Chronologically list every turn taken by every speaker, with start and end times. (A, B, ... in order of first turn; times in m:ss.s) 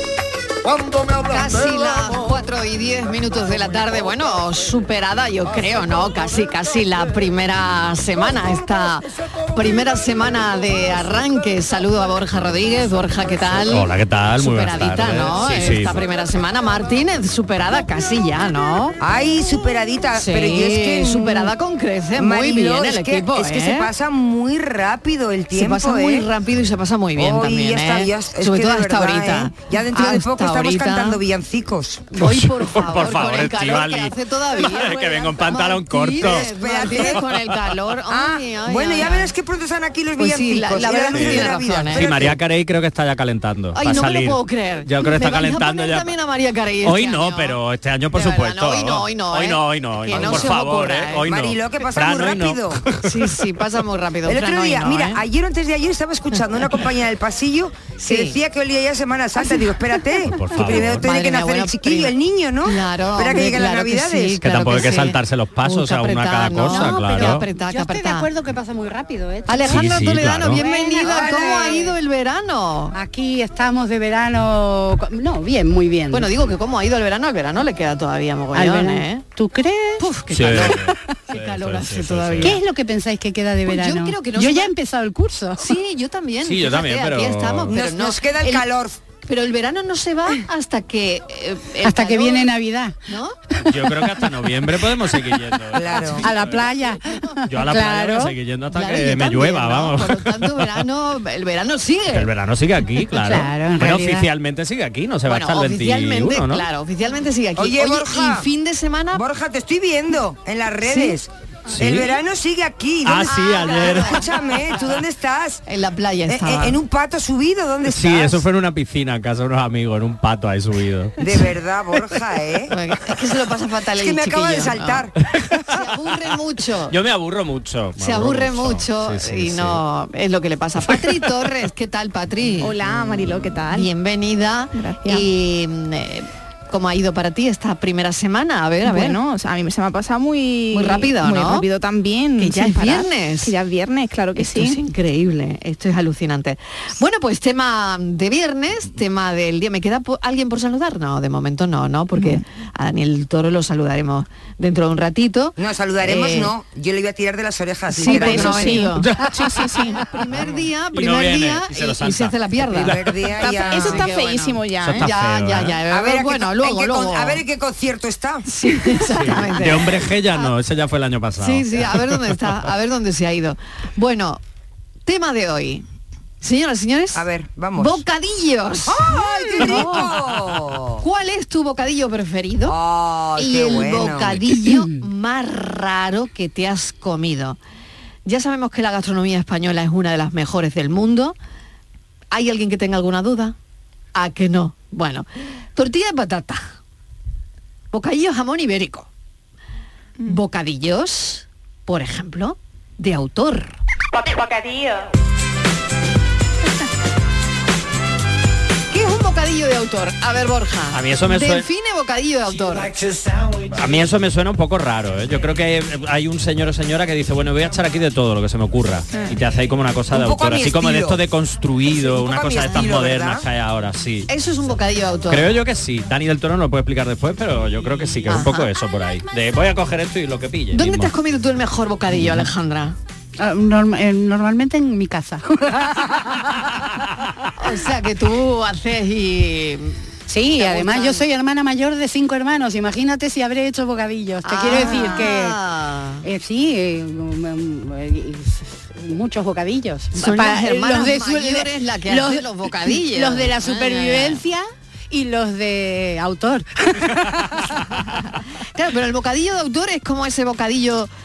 0:00.6-0:04.9 A
0:01.3-0:19.0 B
0:05.4-0:07.2 A
0:09.2-0:11.0 A
0:13.0-0:13.6 A
0:13.7-0:16.0 C
0:19.0-0:21.5 D
0:20.2-0:23.9 B
0:22.2-0:26.3 D
0:25.5-0:31.2 B
0:27.2-0:32.1 D
0:32.1-0:39.3 B
0:32.2-0:37.6 C
0:36.1-0:37.2 D
0:38.1-0:42.4 D
0:40.2-0:42.3 B
0:41.1-0:46.1 C
0:43.8-0:47.6 B
0:46.8-0:53.4 C
0:48.1-0:51.2 B
0:50.1-0:50.5 D
0:51.1-0:52.8 D
0:53.0-0:55.2 B
0:54.3-1:04.4 D
0:58.0-0:58.4 B
1:00.3-1:01.1 C
1:00.5-1:08.3 B
1:04.4-1:07.5 C
1:06.7-1:11.9 E
1:09.5-1:13.0 B
1:09.6-1:10.6 C
1:11.0-1:11.9 D
1:12.9-1:16.3 E
1:16.1-1:19.2 B
1:18.5-1:20.0 E
1:20.0-1:22.6 B
1:20.3-1:22.6 C
1:22.4-1:25.7 E
1:23.7-1:24.7 B
1:25.6-1:28.6 B
1:26.4-1:27.8 C
1:27.7-1:29.0 D
1:29.2-1:32.5 B
1:31.8-1:33.0 E
1:33.1-1:33.4 B
1:33.6-1:36.6 C
1:35.7-1:36.3 D
1:36.2-1:38.3 E
1:37.5-1:40.7 C
1:38.7-1:42.3 B
1:42.1-1:46.6 C
1:43.2-1:44.3 E
1:45.3-1:49.2 B
1:47.6-1:48.5 D
1:49.1-1:55.6 D
1:51.7-1:52.1 C
1:53.0-1:54.3 C
1:53.2-1:54.8 B
1:55.7-1:56.8 B
1:56.3-1:58.4 D
1:57.9-2:01.2 C
2:01.2-2:02.7 D
2:02.7-2:05.1 B
2:04.0-2:05.1 D
2:05.3-2:05.6 C
2:05.7-2:07.0 B
2:06.9-2:09.8 C
2:08.0-2:12.8 B
2:12.6-2:13.9 F
2:13.7-2:19.2 B
2:14.7-2:15.2 F
2:18.8-2:24.8 F
2:20.7-2:21.6 B
2:22.4-2:23.5 B
2:24.4-2:36.5 B
2:35.6-2:38.9 D
2:37.9-2:39.1 B
2:38.1-2:40.0 F
2:38.9-2:39.7 C
2:40.1-2:47.4 B
2:40.3-2:40.6 D
2:40.9-2:43.2 C
2:42.8-2:43.9 D
2:43.6-2:45.1 F
2:44.8-2:45.8 C
2:45.9-2:48.4 D
2:48.4-2:50.5 B
2:49.0-2:52.4 C
2:51.4-2:54.4 B
2:55.1-2:55.8 B
2:56.4-2:57.2 B
2:57.1-2:58.0 D
2:57.8-3:00.1 B
2:58.9-3:01.0 D
2:59.6-3:00.1 C
3:01.0-3:02.7 B
3:02.7-3:04.5 D
3:03.4-3:07.6 B
3:04.6-3:05.1 E
3:08.3-3:11.4 B
3:12.3-3:13.6 B
3:14.2-3:16.7 B
3:17.9-3:19.1 B
3:20.2-3:23.8 B
3:24.1-3:25.1 F
3:28.9-3:32.9 B
3:30.9-3:31.7 C
3:33.7-3:44.3 C
3:40.1-3:41.2 D
3:41.9-3:43.5 D
3:44.3-3:45.6 B
3:45.3-3:51.1 C
3:48.3-3:48.7 B
3:50.7-3:53.0 B
3:53.4-3:56.5 E
3:57.6-4:00.0 B
4:00.3-4:05.6 E
4:00.6-4:01.2 B
4:04.4-4:06.2 B
4:04.8-4:05.2 F
4:06.2-4:17.7 E
4:10.1-4:14.4 B
4:18.7-4:21.1 B